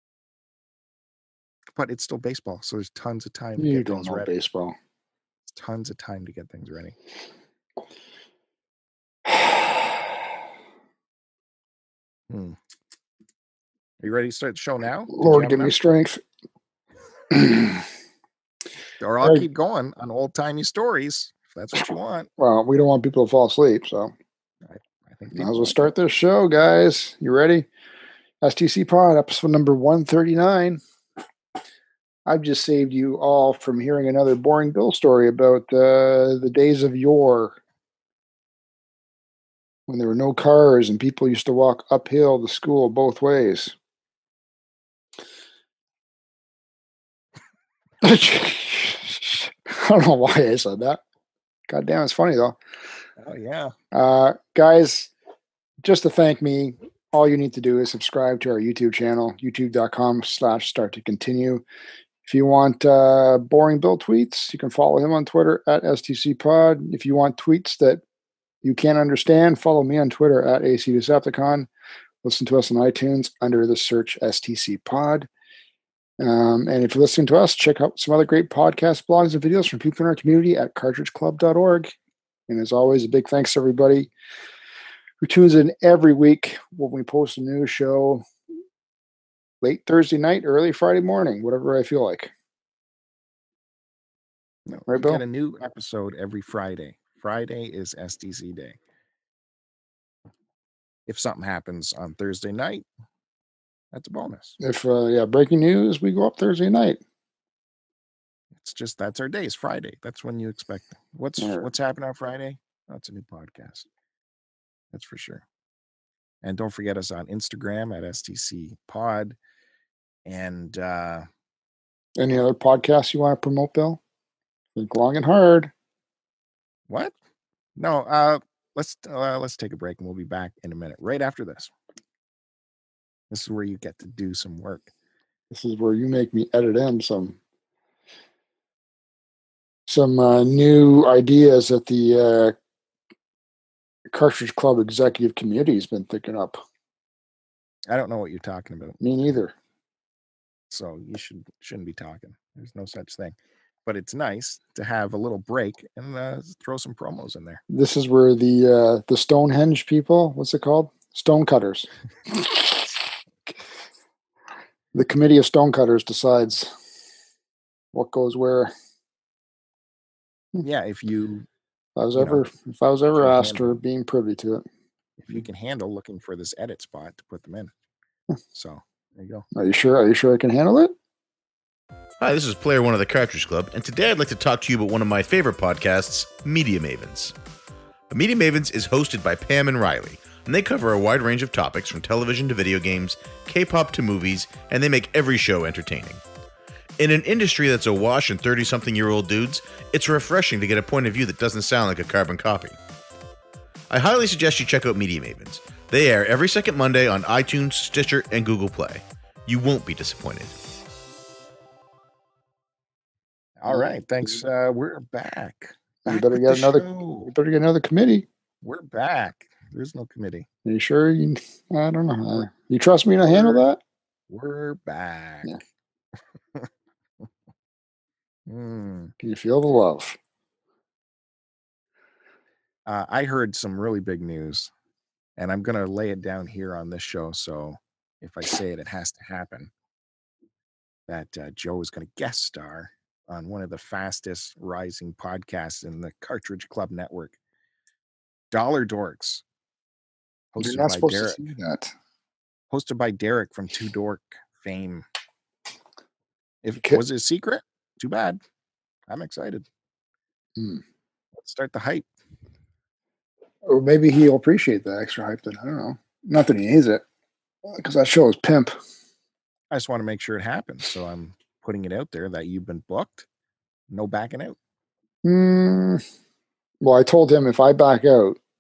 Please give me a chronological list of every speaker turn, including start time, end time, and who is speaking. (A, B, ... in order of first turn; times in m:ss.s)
0:01.7-0:04.3 A
0:03.6-0:04.8 B
0:05.4-0:07.0 A
0:09.3-0:09.5 B
0:12.3-0:12.6 A
0:14.0-0:15.8 A
0:15.1-0:16.2 B
0:17.3-0:17.8 B
0:19.0-0:22.3 A
0:22.4-0:24.1 B
0:24.7-0:25.9 A
0:25.3-0:27.7 B
0:28.4-0:30.8 B
0:32.3-0:37.6 B
0:39.9-0:43.8 B
0:48.0-0:51.0 B
0:51.7-0:52.6 B
0:53.2-0:53.7 A
0:53.9-0:55.1 B
0:55.8-1:01.6 B
1:02.2-1:08.0 B
1:08.6-1:11.7 B
1:12.2-1:15.3 B
1:16.2-1:21.9 B
1:22.5-1:24.1 B
1:25.2-1:28.3 B
1:29.6-1:32.3 B
1:34.7-1:38.8 A
1:34.9-1:35.2 B
1:41.1-1:42.9 A
1:43.9-1:44.6 A
1:44.6-1:47.0 B
1:48.5-1:53.9 A
1:51.4-1:51.7 B
1:54.9-1:55.4 A
1:56.4-1:59.4 A
2:00.2-2:01.3 A
2:02.2-2:04.0 B
2:04.8-2:05.7 B
2:06.9-2:07.1 A
2:07.8-2:11.7 A
2:13.3-2:14.9 A
2:15.5-2:17.4 B
2:19.9-2:22.6 B
2:24.1-2:26.6 B
2:27.9-2:29.0 A
2:29.0-2:29.5 B
2:30.7-2:37.6 A
2:37.7-2:42.9 B
2:45.0-2:46.7 B
2:47.9-2:48.7 B
2:50.6-2:51.5 A
2:52.0-2:54.6 B
2:52.2-2:52.4 A
2:53.2-2:53.8 A
2:55.2-2:57.7 A
2:58.6-2:59.5 A
2:59.6-3:00.9 B
3:02.2-3:07.4 C
3:08.1-3:16.2 C
3:17.0-3:22.8 C
3:23.9-3:30.6 C
3:33.6-3:37.3 A
3:36.0-3:38.3 B
3:38.6-3:40.5 A
3:40.7-3:43.8 B
3:43.3-3:43.7 A
3:44.3-3:45.6 A
3:48.5-3:49.1 A
3:49.2-3:50.2 B
3:52.9-3:54.7 A
3:55.4-3:59.7 A
4:01.1-4:07.4 A
4:08.5-4:09.4 A
4:10.5-4:11.4 A
4:10.6-4:11.9 B
4:12.7-4:15.0 A
4:16.6-4:18.4 A
4:19.1-4:19.7 A
4:20.6-4:20.8 B
4:21.3-4:22.1 A
4:23.6-4:27.0 B
4:27.6-4:28.7 B
4:29.7-4:33.3 A
4:33.9-4:34.6 A
4:35.2-4:36.0 B
4:36.8-4:38.4 B